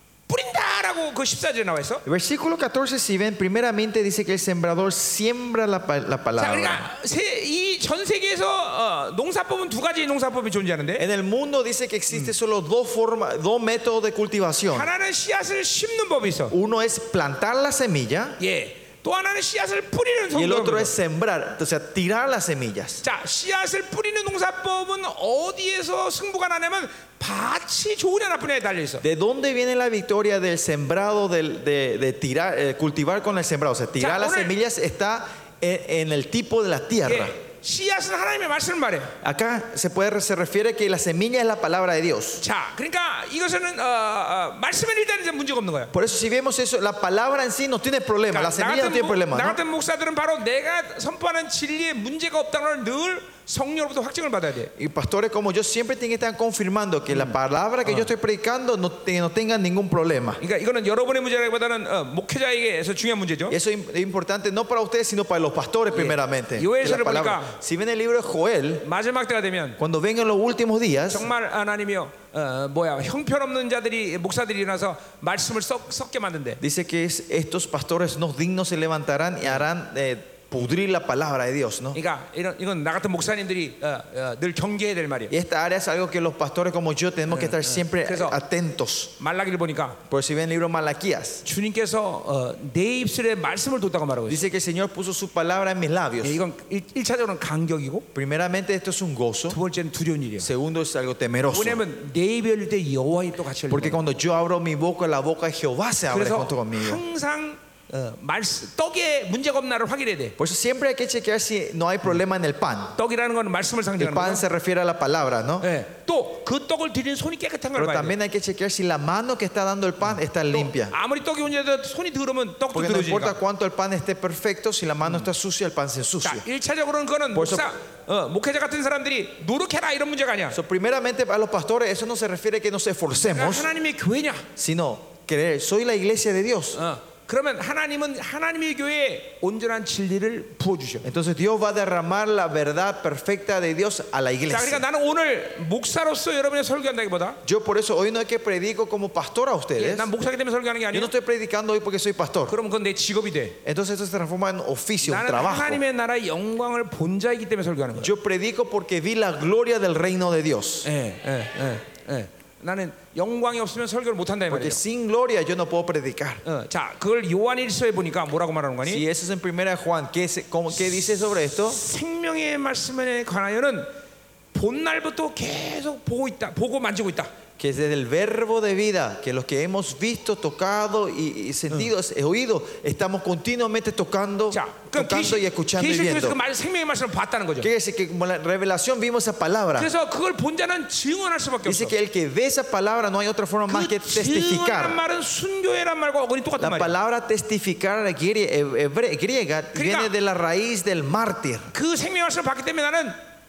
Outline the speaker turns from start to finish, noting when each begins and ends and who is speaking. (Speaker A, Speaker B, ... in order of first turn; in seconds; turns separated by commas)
Speaker A: 0.3-2.0, Speaker B: 2.0-6.9, Speaker A: 6.4-11.1, Speaker B: 11.0-14.9, Speaker A: 14.7-16.6, Speaker B: 16.5-18.4, Speaker A: 18.4-20.9, Speaker B: 20.3-23.0, Speaker A: 23.0-29.0, Speaker B: 29.0-37.4, Speaker A: 34.0-34.5, Speaker A: 37.0-39.1, Speaker B: 39.2-42.4, Speaker A: 42.4-45.9, Speaker B: 45.9-49.6, Speaker A: 48.3-54.7, Speaker B: 54.8-60.4, Speaker A: 57.1-58.1, Speaker A: 60.4-63.6, Speaker B: 63.5-68.8, Speaker A: 65.9-67.6, Speaker A: 68.8-69.8, Speaker B: 69.8-71.3, Speaker A: 71.1-76.6, Speaker B: 76.6-82.0, Speaker A: 81.9-85.3, Speaker B: 85.3-89.1, Speaker A: 87.3-88.4, Speaker A: 89.2-90.0, Speaker B: 90.1-91.4, Speaker A: 91.4-94.4, Speaker B: 94.3-96.4, Speaker A: 96.2-98.1, Speaker B: 98.2-99.6, Speaker A: 99.5-100.5, Speaker B: 100.4-101.8, Speaker A: 101.5-104.0, Speaker B: 103.7-107.0, Speaker A: 106.1-110.4, Speaker B: 110.4-113.0, Speaker A: 113.0-114.4, Speaker B: 114.0-115.7, Speaker A: 115.6-118.2, Speaker B: 117.8-120.9, Speaker A: 120.5-123.4, Speaker B: 122.7-126.5, Speaker A: 126.2-130.6, Speaker B: 127.3-127.7, Speaker B: 130.5-133.7, Speaker A: 133.2-134.4, Speaker B: 134.6-136.8, Speaker A: 136.7-141.1, Speaker B: 141.0-144.8, Speaker A: 144.5-147.4, Speaker B: 147.4-150.1, Speaker A: 149.8-151.1, Speaker B: 150.9-152.6, Speaker A: 152.5-153.6, Speaker B: 153.7-155.8, Speaker A: 155.0-158.1, Speaker B: 158.0-160.9, Speaker A: 160.8-164.8, Speaker B: 164.5-166.4, Speaker A: 166.4-169.0, Speaker B: 168.8-171.8, Speaker A: 171.7-173.9, Speaker A: 174.5-177.3, Speaker B: 177.6-186.4, Speaker A: 184.5-187.7, Speaker B: 187.6-189.9, Speaker A: 189.8-191.9, Speaker B: 191.6-195.0, Speaker A: 193.7-196.9, Speaker B: 196.6-201.7, Speaker A: 199.7-200.1, Speaker A: 201.7-203.2